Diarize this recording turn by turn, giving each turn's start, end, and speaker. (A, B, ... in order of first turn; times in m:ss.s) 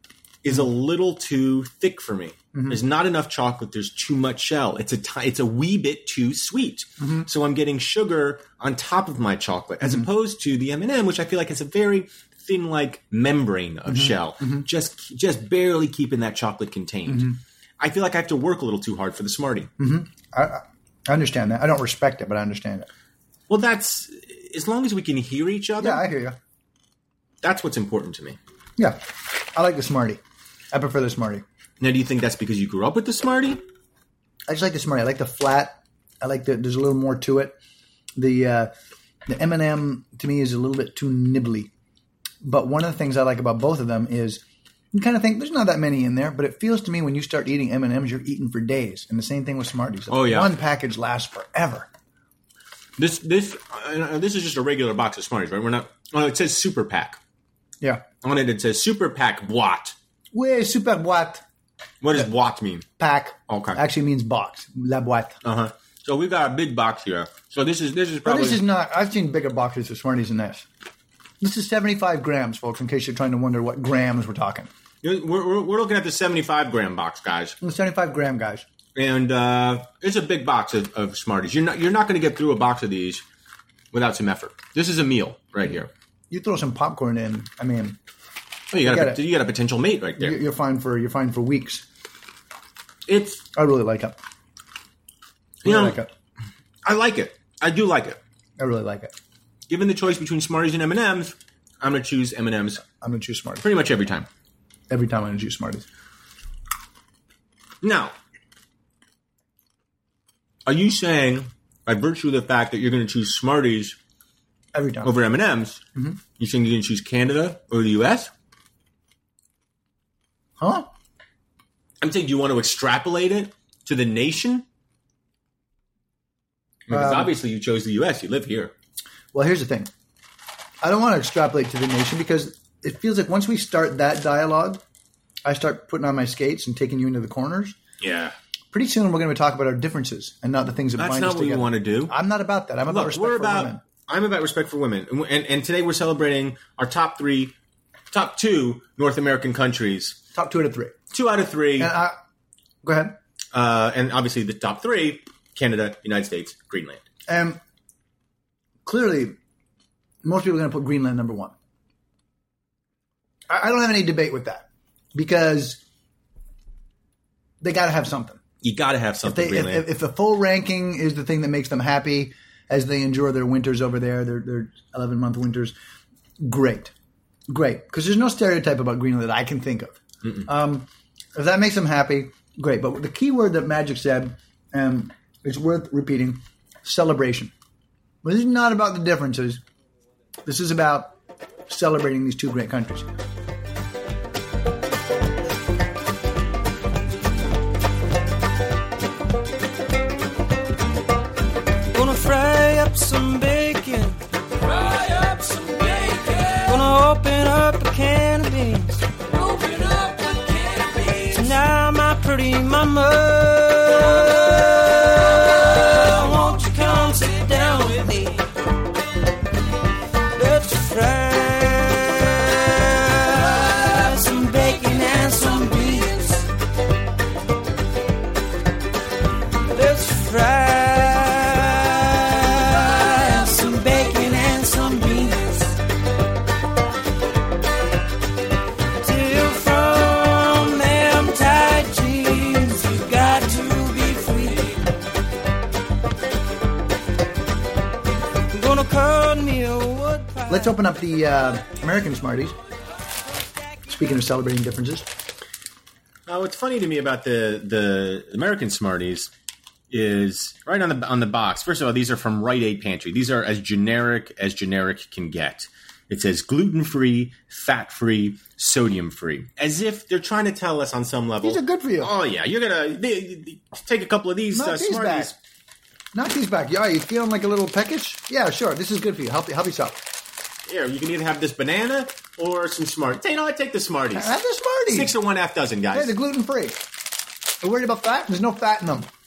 0:00.4-0:19.7 A
0:02.5-0:02.8 B
0:07.0-0:07.3 B
0:09.8-0:10.1 B
0:13.9-0:14.6 B
0:17.1-0:17.4 B
0:19.8-0:22.9 B
0:23.5-0:26.0 A
0:25.8-0:26.4 B
0:27.4-0:28.4 A
0:29.5-0:30.2 B
0:30.7-0:31.4 B
0:31.8-0:33.6 A
0:34.5-0:37.6 B
0:38.2-0:38.7 B
0:39.3-0:41.7 B
0:42.4-0:51.9 B
0:50.1-0:50.5 A
0:53.0-0:57.2 A
0:58.2-0:59.9 A
1:00.3-1:01.4 B
1:02.0-1:02.8 A
1:03.0-1:05.4 B
1:03.5-1:03.8 A
1:05.4-1:08.6 A
1:08.2-1:10.6 B
1:11.4-1:14.7 B
1:15.0-1:17.6 A
1:17.6-1:18.6 B
1:18.9-1:23.2 A
1:23.9-1:25.9 A
1:26.3-1:28.0 B
1:28.7-1:30.4 A
1:28.8-1:29.2 B
1:30.2-1:31.8 B
1:33.1-1:33.4 A
1:33.5-1:34.2 B
1:35.6-1:36.0 A
1:35.6-1:36.1 B
1:36.8-1:38.2 A
1:38.6-1:39.1 B
1:39.7-1:42.8 A
1:42.8-1:43.6 B
1:43.6-1:44.3 A
1:44.9-1:45.9 B
1:47.8-1:48.1 A
1:50.6-1:54.0 A
1:54.7-1:55.1 B
1:55.0-1:55.8 A
1:56.4-1:58.3 A
2:00.6-2:00.9 B
2:02.0-2:04.6 A
2:06.9-2:08.7 A
2:06.9-2:07.3 B
2:09.3-2:09.9 B
2:10.8-2:14.8 B
2:15.4-2:17.8 B
2:18.0-2:18.3 A
2:18.7-2:23.8 B
2:21.0-2:22.1 A
2:22.9-2:27.5 A
2:28.1-2:30.2 A
2:30.3-2:30.9 B
2:31.1-2:31.9 A
2:31.8-2:32.2 B
2:32.8-2:33.1 B
2:33.5-2:37.0 A
2:37.3-2:37.6 B
2:38.8-2:39.4 B
2:40.2-2:41.5 B
2:43.5-2:45.8 B
2:47.6-2:48.4 B
2:48.6-2:49.9 A
2:49.2-2:55.7 B
2:56.4-2:56.9 B
2:57.5-3:07.5 B
3:08.2-3:09.6 B
3:10.4-3:11.1 B
3:11.7-3:13.1 B
3:21.9-3:38.5 C
3:40.3-3:46.5 C
3:49.7-3:55.8 C
3:59.0-4:04.8 C
4:08.5-4:10.7 C
4:10.5-4:12.6 B
4:13.9-4:15.1 B
4:16.3-4:19.3 A
4:19.9-4:35.3 A
4:31.4-4:32.1 B
4:34.5-4:35.3 B
4:36.1-4:40.0 B
4:40.7-4:44.3 A
4:44.1-4:45.1 B
4:44.9-4:46.1 A
4:45.9-4:46.8 B
4:47.6-4:49.1 B